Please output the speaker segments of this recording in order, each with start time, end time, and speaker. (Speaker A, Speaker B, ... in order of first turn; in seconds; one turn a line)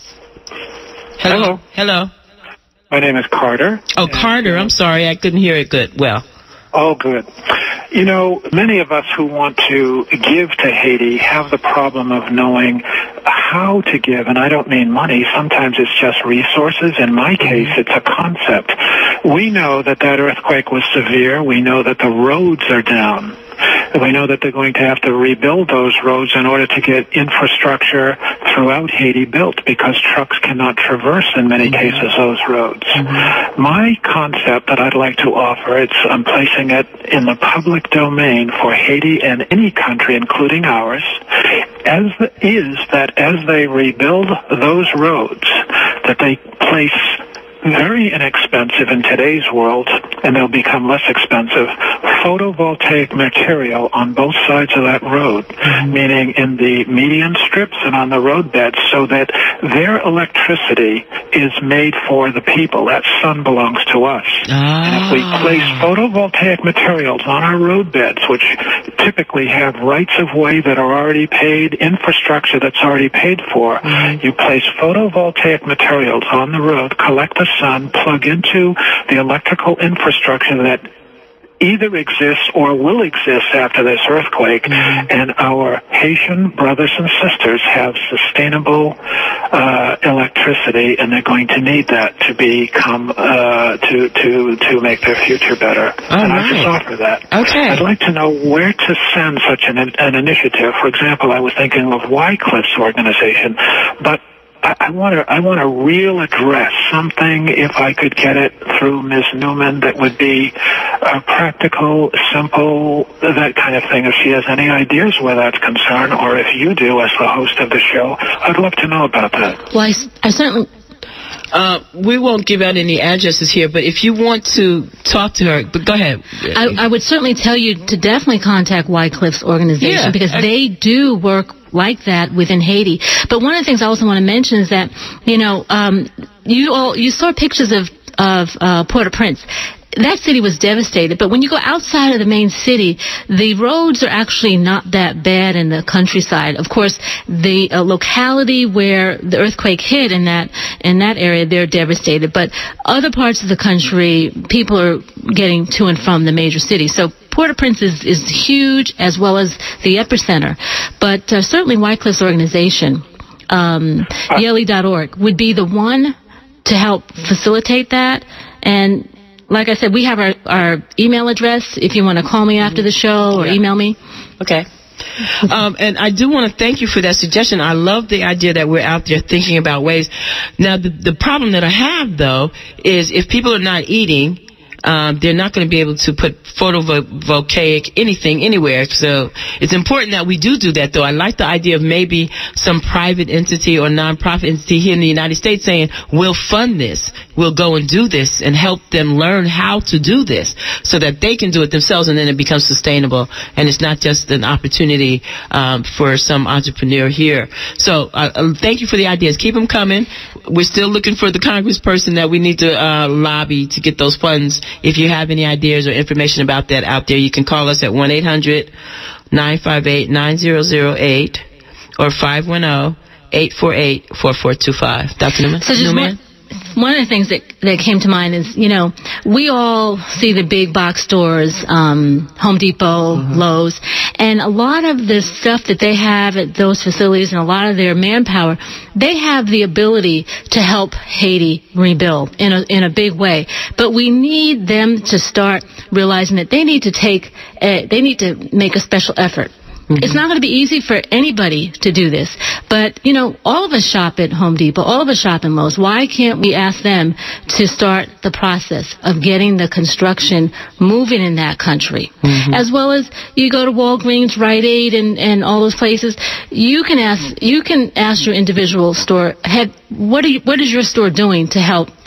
Speaker A: 1.2-2.1
Speaker B: 1.2-1.6
Speaker B: 2.9-4.7
Speaker A: 3.9-6.2
Speaker B: 6.7-23.4
Speaker A: 17.4-17.7
Speaker B: 23.9-80.9
Speaker A: 31.6-32.0
Speaker A: 32.9-33.3
Speaker A: 55.6-55.9
Speaker A: 64.5-65.8
Speaker A: 73.8-74.2
Speaker B: 81.6-89.0
Speaker A: 84.7-85.0
Speaker B: 89.5-119.6
Speaker A: 96.1-96.8
Speaker A: 97.3-97.8
Speaker C: 119.7-120.7
Speaker A: 121.5-126.6
Speaker C: 126.5-174.0
Speaker A: 129.8-130.4
Speaker A: 174.4-174.7
Speaker A: 175.2-218.7
Speaker A: 219.3-221.4
Speaker A: 222.0-226.2
Speaker C: 225.6-226.2
Speaker C: 226.7-271.9
Speaker A: 249.9-250.2
Speaker A: 262.2-262.6